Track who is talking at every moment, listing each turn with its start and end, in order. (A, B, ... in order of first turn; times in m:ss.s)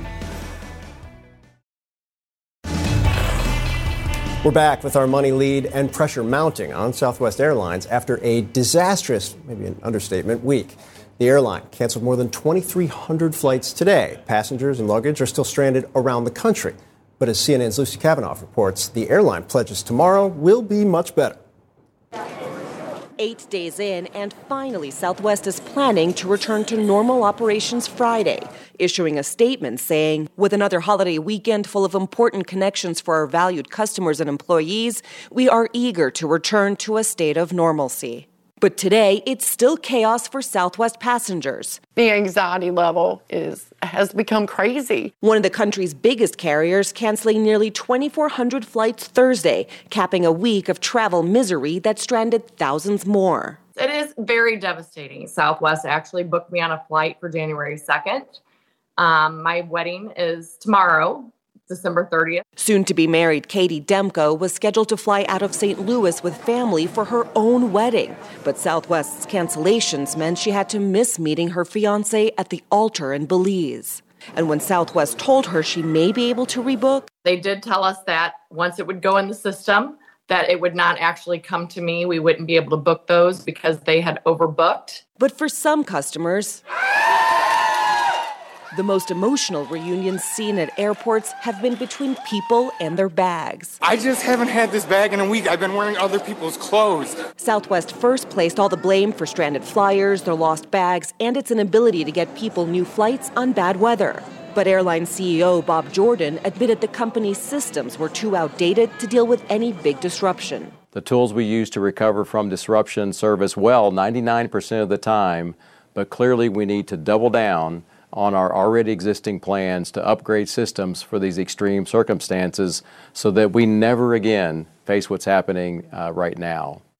0:04.4-0:21.4 A
0:23.2-0:41.8 B
0:45.2-0:53.6 B
0:53.8-0:58.4 C
0:59.0-1:02.4 C
1:02.6-1:17.1 B
1:17.2-1:25.0 C
1:25.2-1:26.6 B
1:28.7-1:33.8 B
1:33.9-1:37.1 D
1:37.4-1:50.7 B
1:50.9-2:06.8 E